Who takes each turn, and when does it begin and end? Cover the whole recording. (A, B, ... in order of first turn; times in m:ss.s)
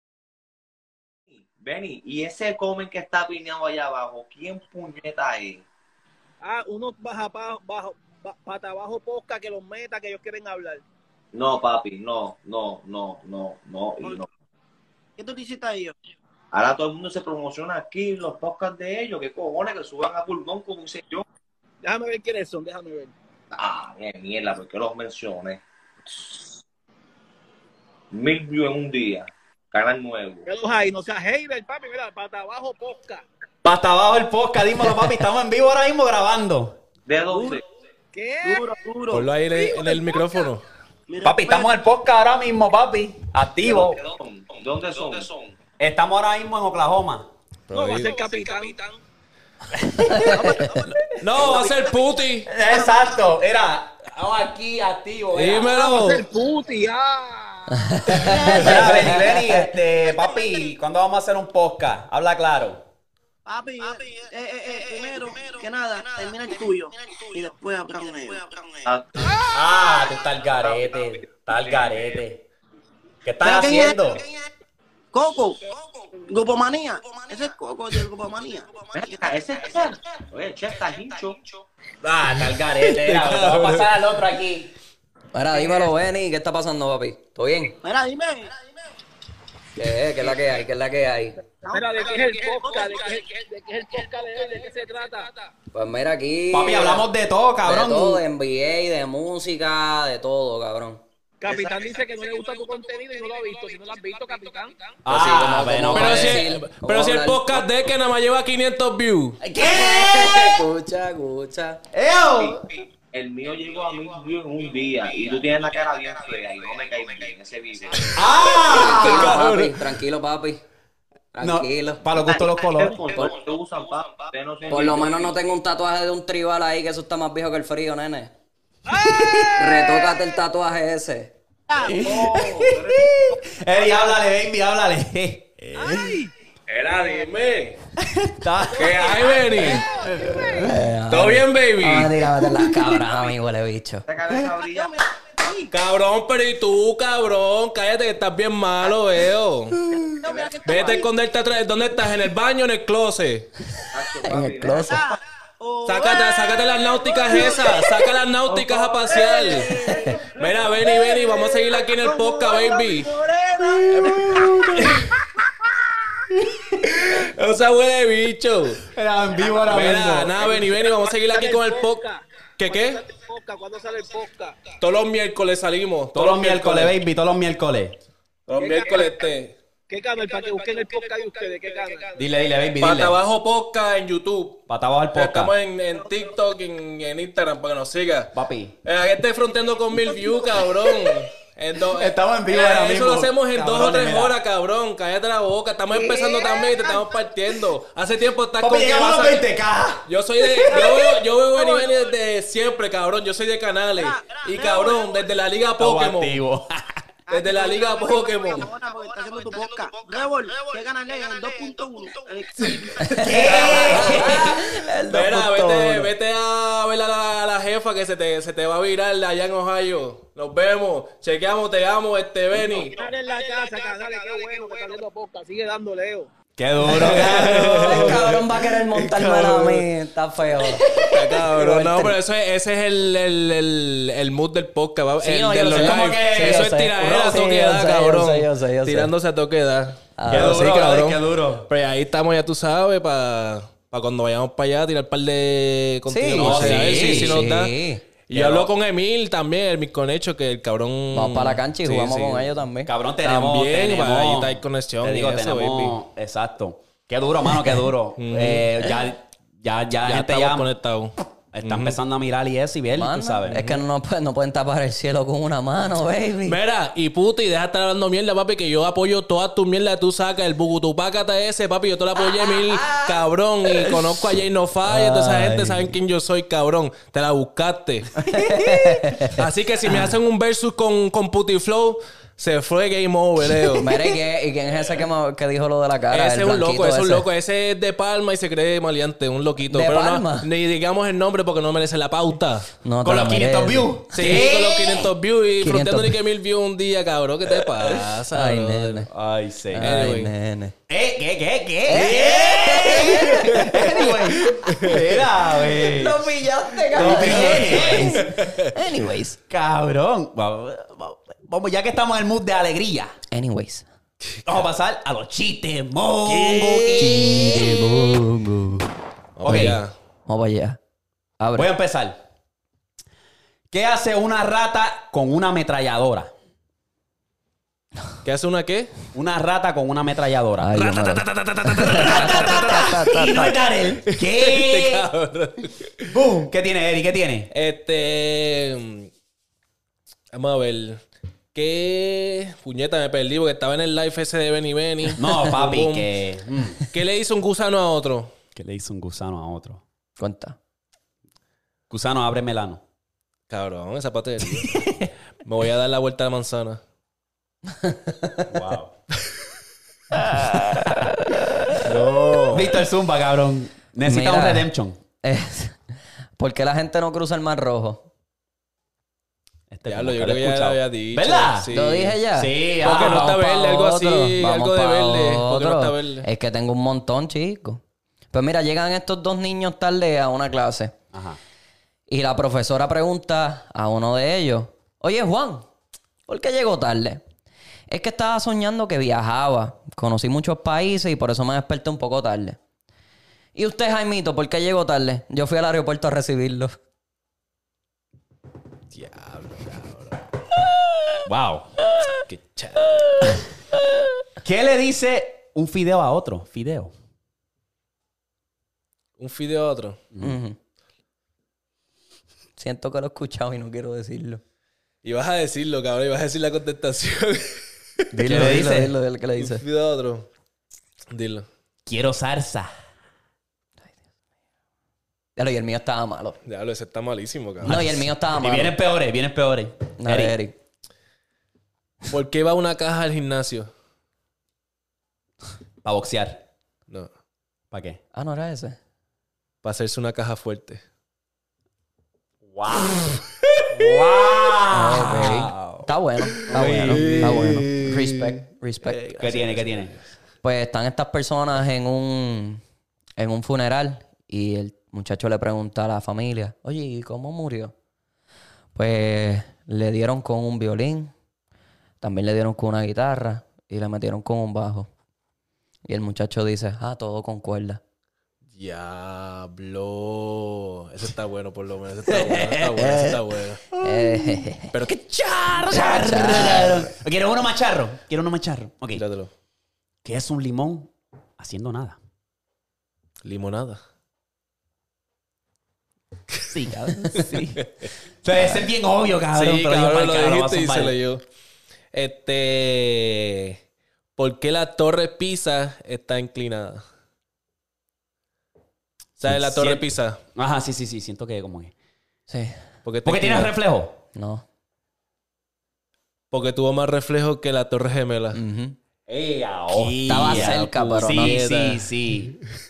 0:01.5-0:05.6 A
0:06.4-0:10.8 B
0:11.3-0:14.3 A
0:15.2-0:15.9 C
0:16.5-0:21.2 A
0:21.8-0:23.1 B
0:23.5-0:26.5 A
0:28.1-0:30.5 A
0:30.4-0:33.2 B
0:33.6-0:36.8 D
0:37.1-0:37.6 A
0:37.3-0:37.6 C
0:38.1-0:38.7 B
0:38.4-0:39.3 C
0:39.1-0:40.6 E
0:39.5-0:40.4 B
0:41.1-0:41.7 C
0:41.2-0:44.0 D
0:43.7-0:45.5 A
0:45.8-0:47.3 D
0:47.7-0:48.2 E
0:47.7-0:49.0 B
0:49.9-0:50.3 D
0:50.0-0:50.8 F
0:50.3-0:51.8 C
0:51.2-0:52.5 E
0:52.5-0:55.9 D
0:55.3-0:56.2 E
0:55.7-0:58.2 B
0:57.7-0:59.4 F
0:58.2-0:59.2 C
0:58.5-1:02.8 D
1:03.4-1:08.9 C
1:08.9-1:09.4 A
1:09.5-1:12.4 D
1:13.2-1:14.2 D
1:13.4-1:14.4 C
1:15.1-1:19.3 C
1:18.9-1:21.5 A
1:22.0-1:24.7 D
1:22.8-1:23.9 E
1:25.3-1:27.8 F
1:27.8-1:28.6 C
1:29.8-1:31.4 F
1:31.6-1:33.2 C
1:31.7-1:35.4 B
1:35.7-1:37.0 F
1:36.5-1:38.2 D
1:37.6-1:41.0 F
1:41.4-1:44.8 B
1:41.5-1:41.7 C
1:45.0-1:46.4 D
1:45.1-1:47.6 F
1:45.9-1:49.4 E
1:49.4-1:50.6 D
1:49.6-1:51.8 F
1:51.9-1:52.6 D
1:52.4-1:58.2 A
1:58.1-1:59.4 D
1:58.7-1:59.8 E
1:58.7-2:00.6 F
2:01.3-2:02.0 F
2:01.4-2:03.0 D
2:02.2-2:05.3 A
2:04.7-2:08.3 F
2:08.9-2:09.5 B
2:08.9-2:09.9 D
2:09.5-2:11.3 F
2:11.7-2:12.6 C
2:11.8-2:16.3 D
2:12.0-2:13.0 A
2:16.7-2:17.8 E
2:18.0-2:20.7 D
2:18.8-2:19.9 E
2:19.0-2:20.6 B
2:20.6-2:24.0 F
2:21.1-2:22.2 E
2:24.1-2:25.1 A
2:24.5-2:25.7 C
2:25.7-2:29.8 E
2:30.2-2:31.1 C
2:30.6-2:33.5 E
2:33.8-2:35.0 F
2:33.9-2:35.0 A
2:34.8-2:44.6 C
2:35.8-2:39.7 E
2:39.8-2:40.2 F
2:40.3-2:43.1 E
2:43.8-2:45.1 E
2:46.8-2:48.9 E
2:48.9-2:50.3 D
2:49.6-2:52.0 E
2:50.2-2:54.7 B
2:52.6-2:53.0 E
2:54.8-2:57.0 E
2:56.1-2:58.0 D
2:58.5-2:59.5 E
2:58.5-2:59.2 B
2:59.9-3:02.1 B
3:02.2-3:03.2 D
3:02.8-3:08.3 E
3:04.7-3:05.5 D
3:08.3-3:08.7 D
3:08.8-3:19.5 E
3:11.9-3:14.4 D
3:15.9-3:17.1 C
3:18.6-3:20.9 D
3:20.0-3:26.4 E
3:20.7-3:21.9 C
3:24.0-3:25.1 C
3:25.8-3:27.0 D
3:27.3-3:33.8 C
3:27.3-3:28.7 E
3:33.0-3:36.1 F
3:33.2-3:34.6 D
3:33.3-3:34.2 E
3:35.1-3:42.9 E
3:42.6-3:45.0 C
3:42.9-3:46.3 B
3:46.6-3:48.4 D
3:46.8-3:49.9 E
3:46.9-3:52.2 F
3:50.9-4:07.7 E
3:55.2-3:57.4 D
3:55.6-3:59.1 F
4:00.2-4:00.6 F
4:00.3-4:01.7 D
4:06.1-4:08.0 F
4:06.4-4:07.4 D
4:08.3-4:12.5 E
4:08.3-4:08.7 D
4:11.1-4:12.9 F
4:12.8-4:20.7 D
4:13.2-4:16.0 E
4:18.2-4:18.7 E
4:20.0-4:22.0 E
4:21.5-4:23.6 D
4:22.9-4:26.6 F
4:23.5-4:23.8 E
4:26.4-4:38.1 E
4:32.2-4:33.2 D
4:34.9-4:35.9 F
4:38.2-4:40.1 F
4:39.2-4:44.0 E
4:43.8-4:47.2 F
4:46.1-4:52.7 E
4:49.7-4:50.5 F
4:52.8-4:54.4 F
4:53.0-4:55.1 D
4:54.1-4:59.1 E
4:55.6-4:56.2 F
4:58.3-4:59.1 F
4:59.1-5:00.1 D
4:59.7-5:00.7 F
4:59.8-5:00.3 E
5:00.9-5:06.3 D
5:01.8-5:04.6 F
5:03.1-5:03.4 E
5:04.7-5:05.0 E
5:05.7-5:09.4 F
5:06.9-5:08.3 D
5:07.0-5:08.6 E
5:09.5-5:13.2 D
5:13.3-5:13.9 F
5:14.4-5:18.0 D
5:16.2-5:17.6 E
5:17.0-5:18.9 F
5:19.4-5:19.9 E
5:19.4-5:19.8 D
5:19.5-5:20.8 F
5:21.4-5:21.7 F
5:21.5-5:22.2 D
5:23.7-5:26.3 D
5:28.2-5:28.9 E
5:29.1-5:30.8 D
5:30.6-5:33.6 F
5:30.7-5:33.3 E
5:31.8-5:35.1 D
5:34.1-5:36.2 E
5:36.1-5:37.5 D
5:37.5-5:39.1 E
5:40.3-5:41.0 E
5:41.5-5:46.1 E
5:45.2-5:46.8 D
5:46.9-5:48.3 E
5:48.5-5:49.8 D
5:50.2-5:50.6 F
5:51.9-5:52.8 D
5:53.5-5:54.9 E
5:55.4-5:56.8 E
5:57.7-5:58.5 F
5:58.5-5:58.9 D
6:00.1-6:01.1 D
6:00.5-6:01.8 F
6:01.8-6:02.7 E
6:02.5-6:05.0 D
6:04.0-6:04.7 F
6:05.2-6:05.8 F
6:06.4-6:08.1 F
6:09.7-6:11.7 D
6:09.9-6:12.2 E
6:11.7-6:21.0 F
6:12.3-6:13.4 D
6:12.8-6:16.3 E
6:21.1-6:21.4 D
6:22.1-6:25.7 F
6:26.3-6:27.2 F
6:27.9-6:32.6 F
6:33.5-6:36.8 F
6:38.9-6:40.2 E
6:41.2-6:41.7 D
6:42.2-6:43.2 E
6:44.4-6:46.9 D
6:49.2-6:50.0 E
6:50.2-6:50.6 F
6:52.6-6:54.4 F
6:55.0-6:58.8 E
6:58.1-6:59.6 F
6:58.1-6:58.9 D
6:59.4-7:00.3 E
7:01.1-7:01.4 E
7:01.8-7:02.7 D
7:05.4-7:06.4 F
7:06.4-7:07.9 E
7:07.6-7:08.7 F
7:07.6-7:10.4 D
7:10.0-7:10.6 F
7:12.1-7:13.7 E
7:15.8-7:16.4 D
7:17.7-7:18.0 D
7:18.1-7:18.8 F
7:19.6-7:20.8 E
7:22.4-7:23.1 D
7:23.5-7:23.8 E
7:23.7-7:25.9 D
7:24.7-7:29.3 F
7:26.4-7:30.0 E
7:26.5-7:27.5 D
7:29.2-7:29.9 D
7:30.4-7:32.6 F
7:33.2-7:37.7 F
7:38.7-7:41.1 F
7:42.0-7:44.9 F
7:45.9-7:47.8 F
7:48.5-7:53.7 E
7:52.1-7:53.2 D
7:53.7-7:59.0 D
7:53.8-7:54.7 F
7:54.7-7:55.0 E
7:55.6-7:56.9 F
7:58.9-7:59.3 E
8:00.0-8:02.0 D
8:03.2-8:03.8 E
8:06.5-8:11.0 D
8:07.6-8:07.9 E
8:09.3-8:11.2 E
8:11.9-8:13.6 E
8:14.2-8:16.8 E
8:19.2-8:20.2 E
8:19.2-8:21.7 D
8:22.3-8:22.6 F
8:22.8-8:23.5 E
8:23.0-8:24.0 D
8:24.1-8:24.4 F
8:26.3-8:28.4 E
8:28.3-8:28.8 F
8:29.1-8:32.3 D
8:29.7-8:31.9 E
8:30.1-8:31.4 F